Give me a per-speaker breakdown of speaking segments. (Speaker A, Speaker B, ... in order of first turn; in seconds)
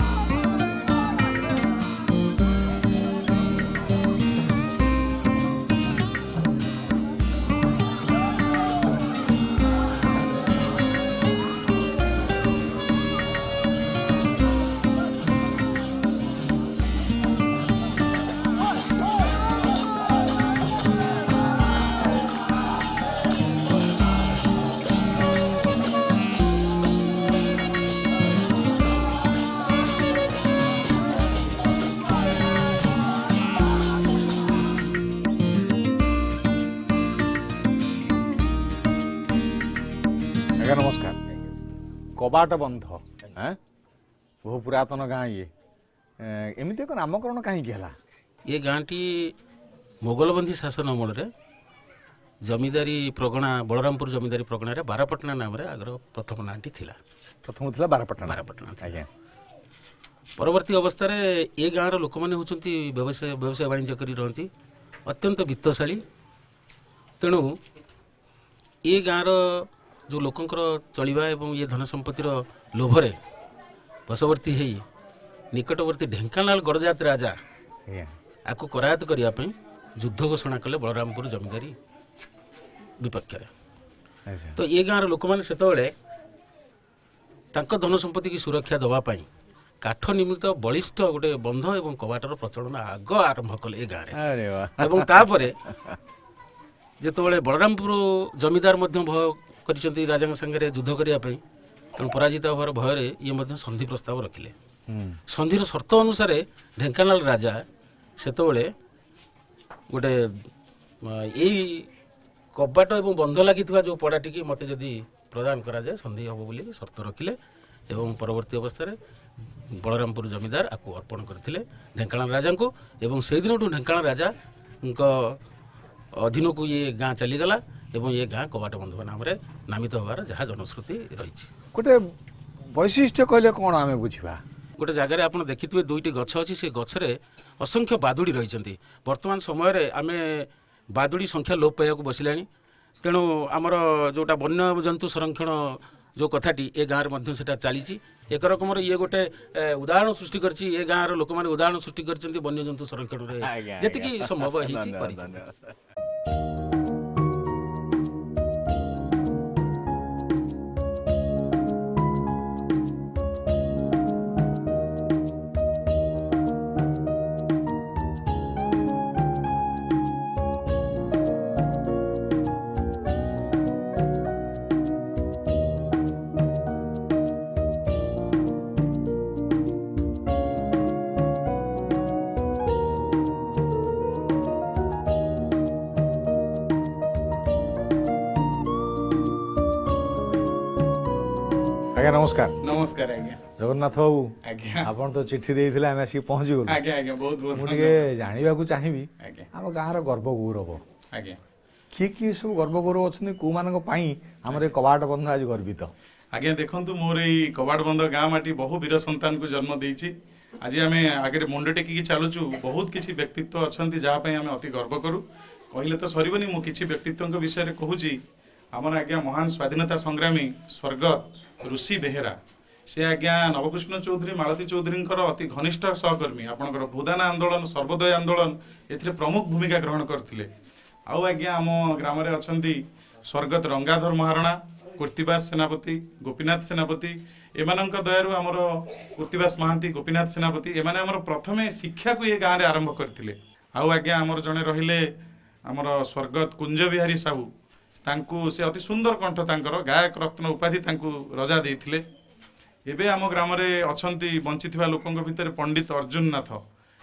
Speaker A: 40.6-41.2, 42.2-43.6, 44.4-45.5, 46.2-47.9, 57.4-59.1, 77.9-78.1, 84.3-84.6, 94.1-95.2, 104.9-105.2, 131.7-132.0, 132.7-134.4, 153.4-155.7, 191.9-192.6, 193.6-194.3, 194.8-196.8, 197.5-200.8, 201.9-205.9
Speaker B: 48.5-49.3, 50.0-51.3, 52.4-57.0, 58.2-59.0, 60.4-64.5, 65.1-66.0, 67.2-67.6, 68.8-73.2, 74.1-74.8, 75.5-77.4, 78.5-81.7, 83.0-83.5, 84.6-85.9, 87.5-89.2, 89.8-94.2, 94.8-95.6, 97.0-101.4, 102.0-104.5, 105.3-107.6, 108.2-108.7, 109.9-110.5, 111.0-111.9, 112.5-117.3, 117.9-119.0, 119.7-124.3, 124.8-125.3, 126.2-131.5, 134.8-142.4, 143.0-155.4
Speaker C: 192.6-193.4, 194.4-194.9, 196.7-198.0, 199.2-199.5, 206.3-210.1, 210.6-215.2, 215.7-218.2, 218.8-222.4, 222.9-230.5, 231.1-232.8, 233.3-245.0, 245.7-247.5, 248.0-252.0, 252.9-256.6